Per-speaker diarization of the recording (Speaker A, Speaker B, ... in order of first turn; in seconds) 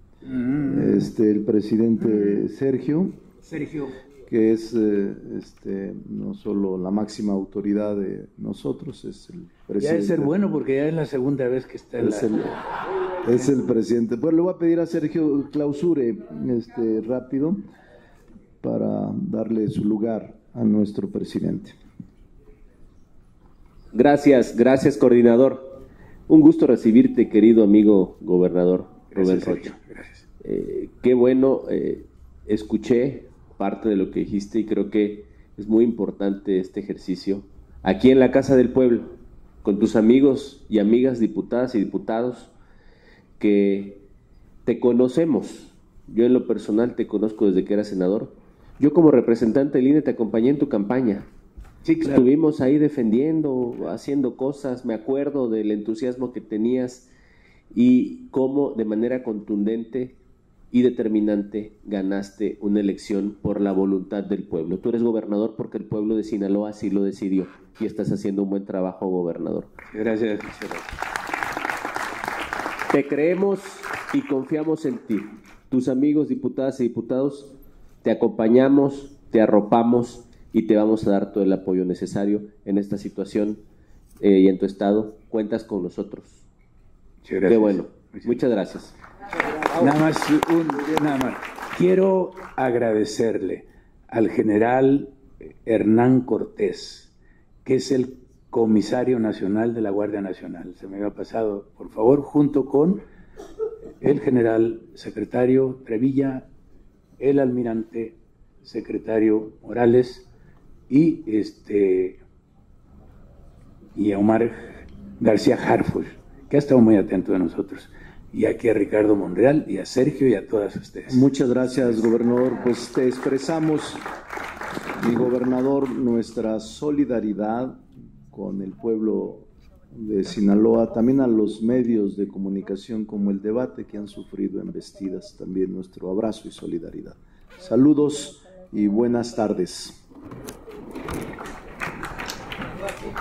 Speaker A: 0.2-1.1, 2.1-2.4, 3.4-4.0, 9.8-12.4, 29.1-30.2, 51.9-52.3, 69.9-70.8, 87.2-88.4, 89.7-95.1, 95.7-97.1, 97.7-103.0, 104.0-106.5, 107.2-110.3, 110.9-112.2, 114.0-121.2
Speaker B: 0.6-3.2, 4.3-10.3, 12.0-12.6, 13.2-17.6, 18.6-21.8, 121.1-124.0, 125.0-127.8, 128.3-140.0
Speaker C: 23.9-29.7, 30.4-42.5, 43.4-44.0, 44.7-51.3, 52.0-57.1, 57.7-60.2, 60.7-69.7, 72.9-77.5, 78.0-83.6, 84.2-86.5, 87.5-89.0